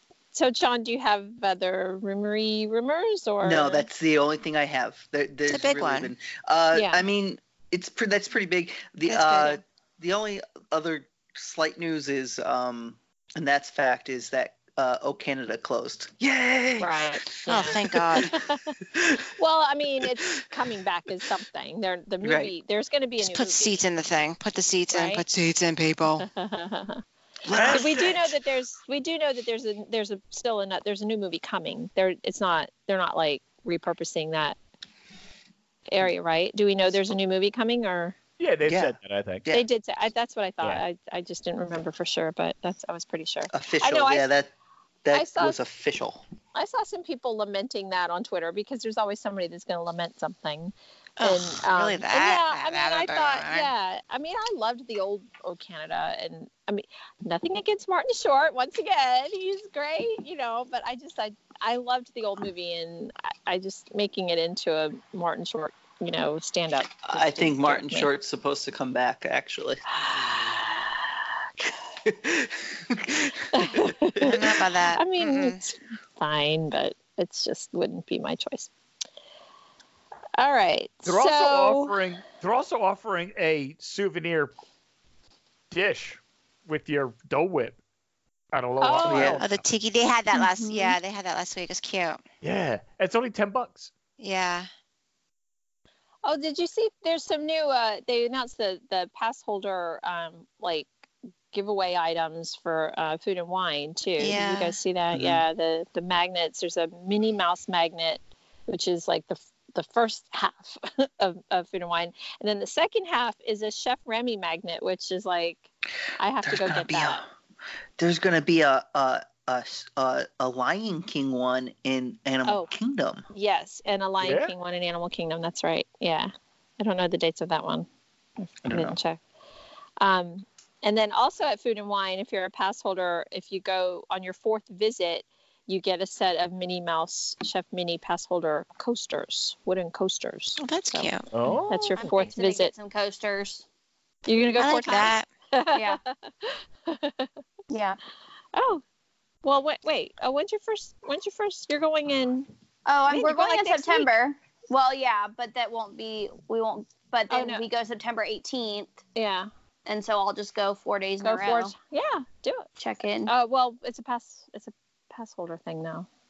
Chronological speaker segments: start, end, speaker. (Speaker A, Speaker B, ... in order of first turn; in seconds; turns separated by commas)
Speaker A: 0.3-3.9, Speaker B: 3.4-18.3, Speaker C: 5.5-6.1, Speaker A: 6.7-7.0, Speaker C: 9.1-9.4, Speaker A: 16.8-18.8, Speaker C: 17.5-18.3, Speaker B: 18.9-19.2, Speaker A: 19.4-23.8, Speaker B: 22.2-22.5, Speaker C: 23.2-26.3, Speaker A: 24.9-25.2, Speaker A: 26.2-27.0, Speaker B: 27.4-28.4, Speaker A: 27.6-34.6, Speaker A: 35.9-38.2, Speaker D: 38.4-39.5, Speaker B: 38.6-39.7, Speaker A: 39.5-44.3, Speaker B: 43.5-44.5, Speaker B: 45.0-46.2, Speaker A: 45.1-45.6, Speaker A: 46.5-68.1, Speaker C: 51.2-53.7, Speaker B: 67.0-69.9, Speaker A: 69.9-70.9, Speaker B: 72.0-74.3, Speaker A: 73.5-78.7, Speaker C: 74.2-75.6, Speaker A: 80.4-82.0, Speaker D: 81.0-84.5, Speaker D: 85.7-87.8, Speaker D: 88.5-89.7, Speaker A: 88.8-89.4, Speaker B: 89.0-89.4, Speaker C: 89.4-92.2, Speaker E: 90.3-91.0, Speaker D: 92.4-93.9, Speaker C: 94.2-94.7, Speaker A: 96.2-100.9, Speaker A: 101.5-117.2, Speaker C: 104.2-104.8, Speaker B: 105.2-105.4, Speaker B: 116.4-117.3, Speaker B: 118.0-123.2, Speaker A: 122.5-122.7, Speaker A: 123.3-127.9, Speaker D: 124.2-124.5, Speaker A: 128.4-129.2, Speaker B: 128.7-129.0, Speaker A: 130.0-141.1, Speaker C: 140.6-141.3, Speaker D: 141.3-142.2, Speaker A: 141.7-142.7, Speaker E: 142.0-143.7, Speaker A: 144.3-147.3, Speaker C: 144.6-145.3, Speaker E: 145.7-146.0, Speaker E: 147.7-148.0, Speaker A: 148.6-148.8, Speaker A: 149.4-152.5, Speaker E: 152.9-159.0, Speaker A: 153.1-154.1, Speaker A: 157.3-157.7, Speaker A: 159.2-159.5, Speaker E: 159.9-161.7, Speaker A: 161.2-162.7, Speaker E: 162.8-163.3, Speaker A: 163.3-166.1